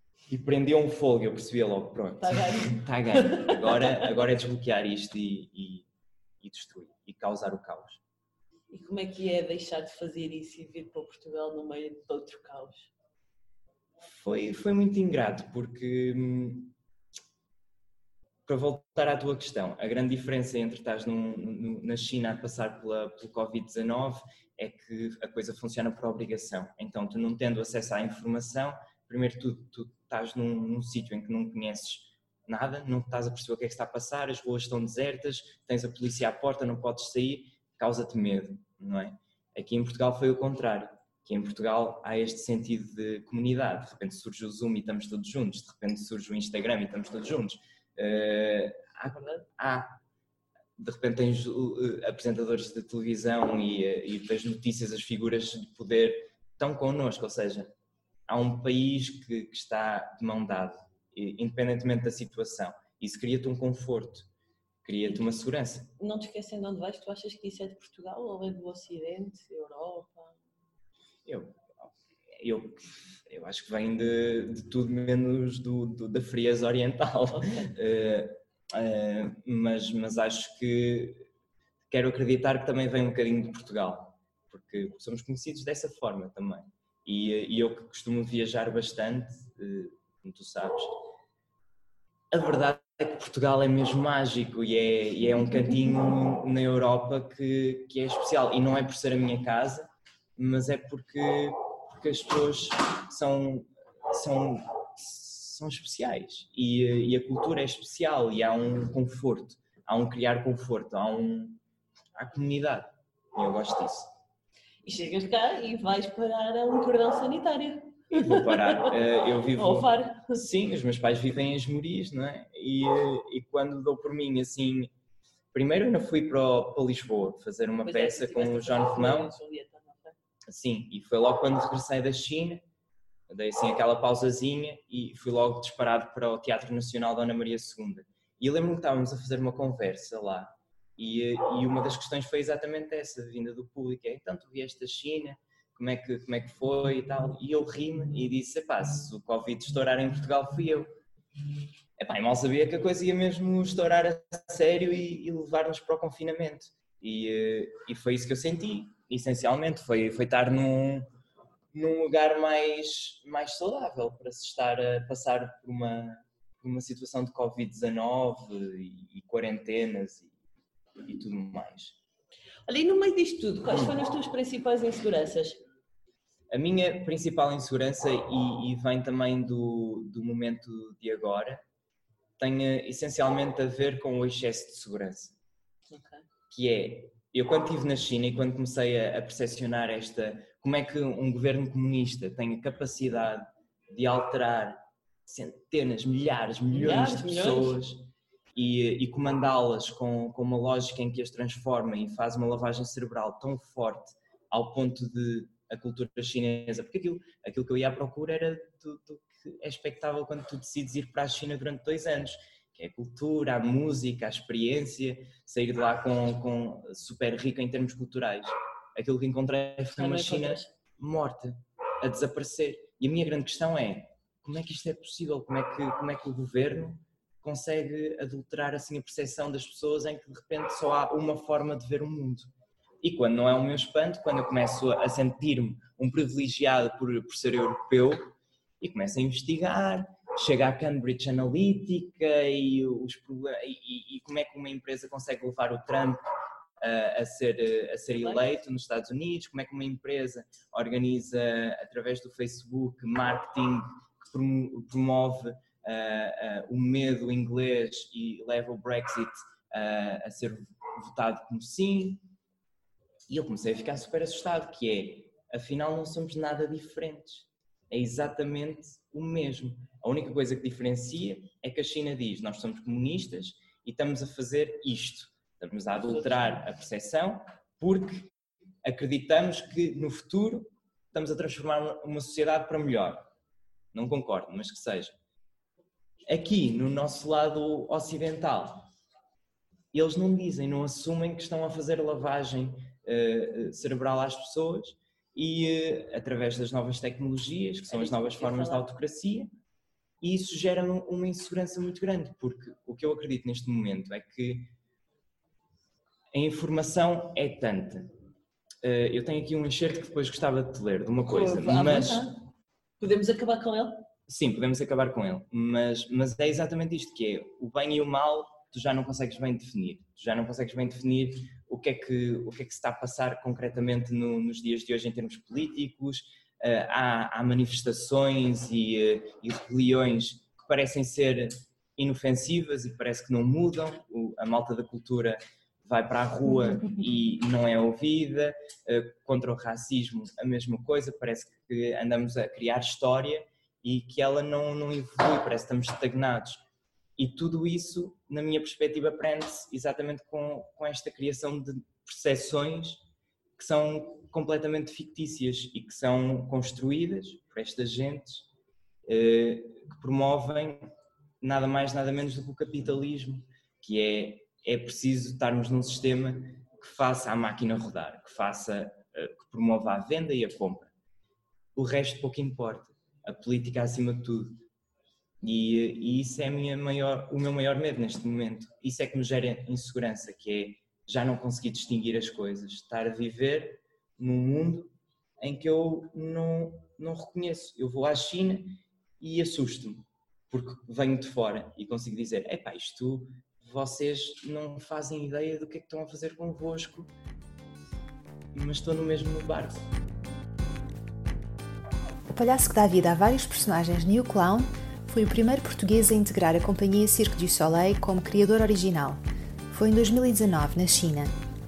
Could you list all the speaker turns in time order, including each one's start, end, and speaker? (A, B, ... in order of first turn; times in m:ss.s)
0:00.3-0:05.8 A
0:02.2-0:04.1 B
0:06.4-0:08.0 A
0:08.7-0:12.9 B
0:14.0-0:16.7 A
0:18.5-0:50.0 A
0:50.8-0:57.7 A
0:58.3-1:04.3 A
1:04.8-1:05.9 A
1:06.0-1:10.4 B
1:11.2-1:21.2 A
1:17.3-1:17.7 B
1:21.9-1:31.0 A
1:32.3-1:51.6 A
1:52.2-1:54.1 A
1:54.8-1:59.0 B
1:58.2-2:04.9 A
1:59.5-2:00.4 B
2:05.5-2:09.3 A
2:07.8-2:10.2 B
2:10.5-2:12.6 A
2:13.3-2:30.9 A
2:32.0-2:41.1 A
2:41.7-2:50.3 A
2:51.0-2:52.0 A
2:52.7-2:55.6 B
2:56.5-3:01.6 A
3:02.4-3:05.4 A
3:05.9-3:06.2 B
3:06.5-3:52.5 A
3:16.7-3:17.8 B
3:40.0-3:40.7 B
3:53.0-4:06.2 A
4:06.8-4:22.2 A
4:08.1-4:08.5 B
4:23.3-4:38.3 A
4:38.8-4:43.3 A
4:43.9-4:45.1 A
4:46.3-4:48.9 A
4:49.9-4:59.5 A
4:57.9-4:58.9 B
5:00.2-5:04.7 A
5:06.3-5:08.1 A
5:08.8-5:12.3 A
5:11.3-5:12.4 B
5:13.0-5:14.1 B
5:14.3-5:46.6 A
5:47.2-5:53.0 A
5:53.6-5:58.5 A
5:59.0-6:10.9 A
6:11.8-6:14.6 A
6:15.4-6:37.1 A
6:38.5-6:39.8 A
6:42.3-6:49.2 C
6:49.7-6:51.3 C